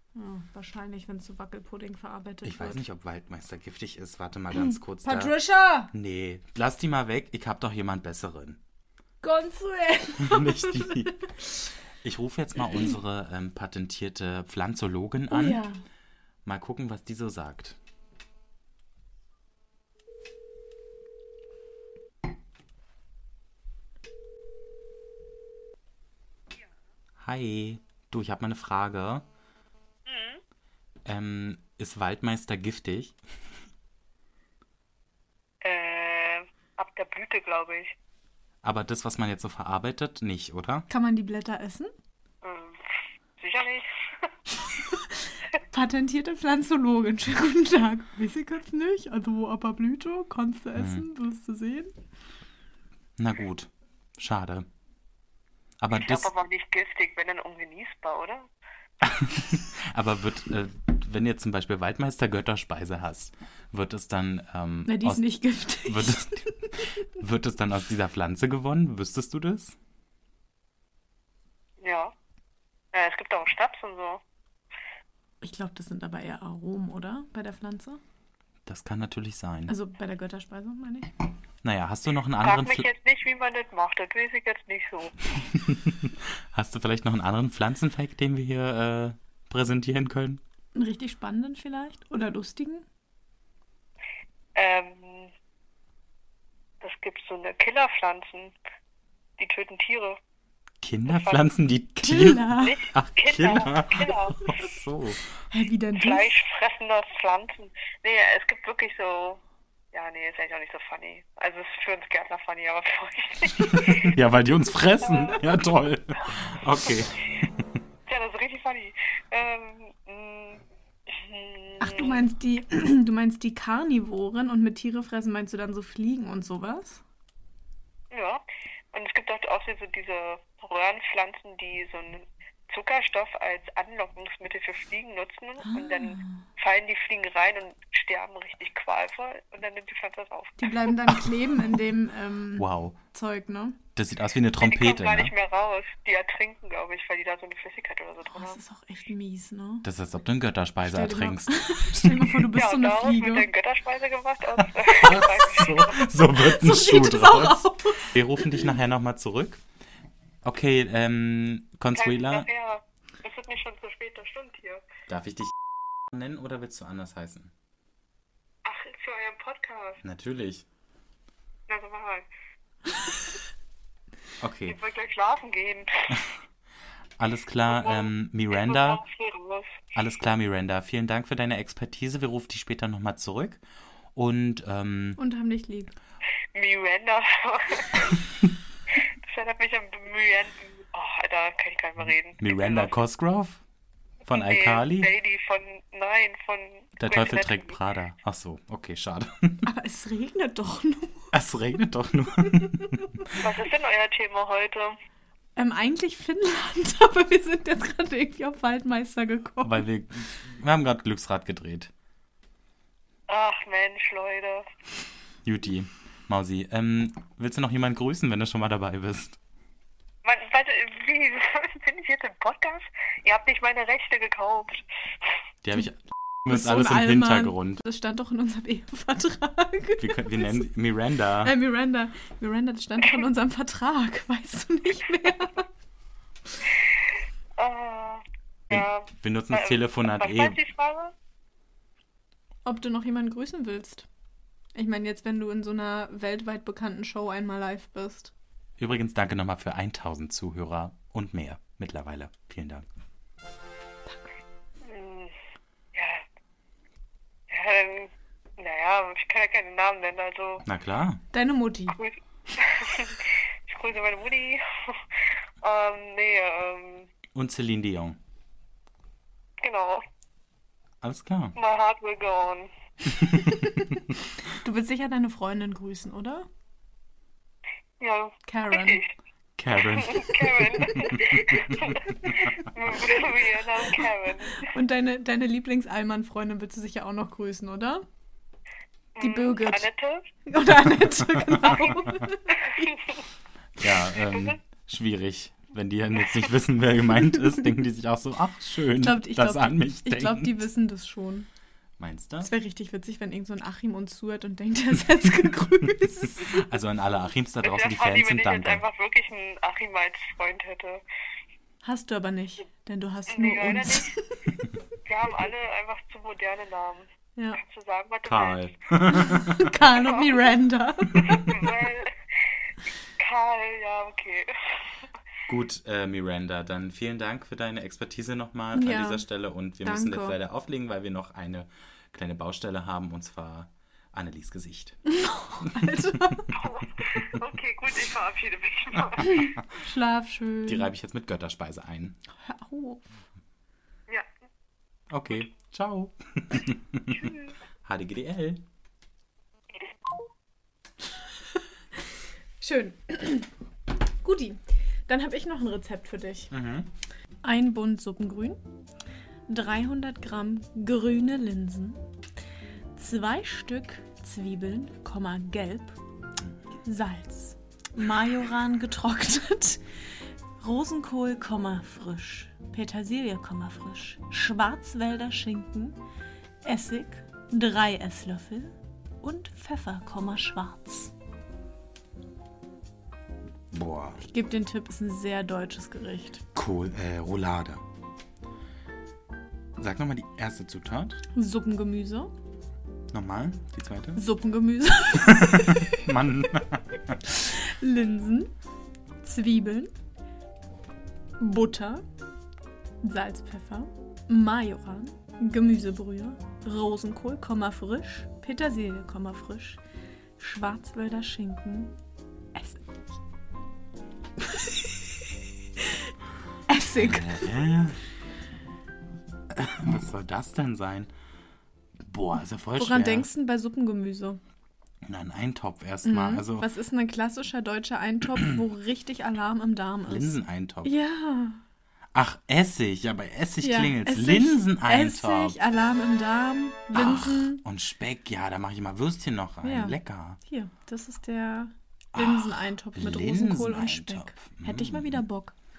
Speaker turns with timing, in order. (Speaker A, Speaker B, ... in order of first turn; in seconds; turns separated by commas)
Speaker A: 0.1-2.8, Speaker B: 2.4-5.4, Speaker A: 4.6-5.9, Speaker B: 5.9-8.6, Speaker A: 9.2-11.2, Speaker B: 10.2-11.2, Speaker B: 12.0-15.6, Speaker A: 15.3-15.8, Speaker B: 16.4-17.8, Speaker B: 27.2-29.2, Speaker C: 30.1-30.4, Speaker B: 31.1-33.2, Speaker C: 35.6-37.9, Speaker B: 38.6-40.9, Speaker A: 40.9-41.9, Speaker C: 42.4-42.8, Speaker C: 43.4-44.3, Speaker A: 44.7-51.9, Speaker B: 50.8-51.0, Speaker B: 53.2-54.7, Speaker B: 55.8-56.3, Speaker C: 55.9-58.5, Speaker B: 59.0-65.3, Speaker A: 64.9-66.7, Speaker B: 65.8-69.8, Speaker C: 71.8-72.1, Speaker C: 72.9-74.2, Speaker A: 75.4-78.0, Speaker B: 78.7-79.7, Speaker A: 79.7-81.1, Speaker B: 81.6-82.9, Speaker C: 82.4-85.2, Speaker B: 85.4-90.4, Speaker A: 90.8-92.9, Speaker C: 94.5-95.3, Speaker C: 96.8-98.5, Speaker C: 99.4-100.2, Speaker B: 100.8-105.2, Speaker C: 101.1-101.5, Speaker A: 102.0-102.8, Speaker C: 102.6-104.4, Speaker A: 105.5-106.3, Speaker C: 106.0-109.4, Speaker C: 109.9-114.1, Speaker B: 113.6-117.2, Speaker C: 115.0-115.6, Speaker C: 118.1-122.2, Speaker A: 121.8-127.0, Speaker C: 128.1-128.4, Speaker C: 128.9-140.7, Speaker A: 135.6-136.4, Speaker A: 140.6-143.8, Speaker B: 141.1-141.8, Speaker B: 142.6-143.0, Speaker B: 143.9-145.3, Speaker C: 144.6-148.6, Speaker A: 148.3-149.8, Speaker B: 149.8-152.5, Speaker A: 150.8-153.5, Speaker C: 152.6-156.1, Speaker B: 154.6-159.6, Speaker A: 156.3-158.7, Speaker B: 160.4-162.5, Speaker C: 161.9-164.9, Speaker B: 165.1-165.5, Speaker B: 166.1-167.5, Speaker C: 168.7-170.0, Speaker B: 170.0-170.7, Speaker C: 171.7-172.3, Speaker B: 174.4-174.8, Speaker C: 174.7-176.2, Speaker B: 177.2-179.0, Speaker C: 177.7-179.8, Speaker B: 179.9-183.6, Speaker B: 184.2-185.2, Speaker A: 185.2-185.9, Speaker C: 186.5-188.2, Speaker C: 189.3-193.0, Speaker B: 192.4-193.6, Speaker C: 194.3-197.8, Speaker B: 194.3-195.1, Speaker B: 197.0-199.7, Speaker A: 199.7-201.3, Speaker B: 201.3-203.3, Speaker A: 202.8-203.1, Speaker C: 203.4-205.0, Speaker A: 205.6-209.8, Speaker B: 209.6-211.9, Speaker C: 213.3-214.7, Speaker B: 215.4-219.4, Speaker C: 220.2-224.8, Speaker B: 225.6-227.8, Speaker A: 226.5-230.7, Speaker B: 230.0-231.6, Speaker A: 231.4-235.7, Speaker C: 236.7-237.0, Speaker C: 237.6-241.1, Speaker B: 238.7-240.6, Speaker A: 242.7-244.1, Speaker A: 244.8-248.3, Speaker B: 248.8-252.9, Speaker C: 254.8-255.3, Speaker C: 255.9-256.2, Speaker C: 257.5-260.6, Speaker B: 260.6-261.2, Speaker A: 261.3-262.0, Speaker C: 261.9-267.1, Speaker B: 267.3-268.2, Speaker C: 269.6-270.0, Speaker B: 271.0-271.6, Speaker C: 271.6-272.7, Speaker B: 273.1-274.0, Speaker A: 273.4-276.5, Speaker C: 278.0-279.1, Speaker A: 278.5-279.0, Speaker B: 279.6-282.6, Speaker C: 279.8-284.7, Speaker A: 281.1-281.8, Speaker A: 284.6-288.1, Speaker C: 289.2-290.3, Speaker A: 289.2-289.9, Speaker A: 290.5-293.1, Speaker B: 291.1-292.1, Speaker B: 293.8-300.6, Speaker C: 294.3-294.6, Speaker C: 296.2-296.5, Speaker A: 299.0-301.5, Speaker B: 302.0-302.5, Speaker A: 302.4-306.5, Speaker B: 305.9-308.8, Speaker C: 307.6-311.0, Speaker A: 311.8-314.4, Speaker C: 313.3-314.1, Speaker C: 315.1-318.7, Speaker B: 318.2-319.9, Speaker A: 319.1-321.4, Speaker C: 319.9-320.4, Speaker C: 321.2-322.1, Speaker C: 323.2-325.1, Speaker B: 325.5-335.0, Speaker A: 328.7-329.2, Speaker A: 329.8-330.4, Speaker A: 335.1-336.5, Speaker C: 336.5-339.5, Speaker A: 339.2-340.9, Speaker B: 340.7-342.2, Speaker A: 342.4-343.1, Speaker B: 345.1-348.6, Speaker C: 347.1-347.5, Speaker A: 352.6-353.5, Speaker A: 354.2-356.5, Speaker B: 356.5-356.9, Speaker A: 357.4-358.6, Speaker A: 359.5-362.0, Speaker A: 363.0-366.0, Speaker A: 366.9-369.8, Speaker A: 370.6-376.0, Speaker A: 376.6-381.1, Speaker B: 383.7-384.2, Speaker A: 384.2-386.4, Speaker B: 386.6-387.8, Speaker B: 389.8-391.2, Speaker A: 391.4-392.3, Speaker B: 393.1-394.2, Speaker A: 394.1-395.9, Speaker B: 395.2-397.2, Speaker A: 397.4-398.5, Speaker A: 399.2-399.9, Speaker A: 401.4-402.1, Speaker A: 403.0-409.8, Speaker A: 410.4-411.9, Speaker A: 412.5-412.9, Speaker A: 414.5-414.9, Speaker A: 415.8-416.1, Speaker A: 416.7-417.5, Speaker B: 416.9-418.0, Speaker B: 419.5-421.1, Speaker B: 422.1-423.3, Speaker A: 422.8-424.4, Speaker B: 425.1-426.7, Speaker A: 426.1-431.6, Speaker B: 430.1-430.9, Speaker B: 432.1-435.6, Speaker A: 433.6-437.6, Speaker B: 436.9-440.4, Speaker A: 439.6-445.5, Speaker B: 442.1-445.2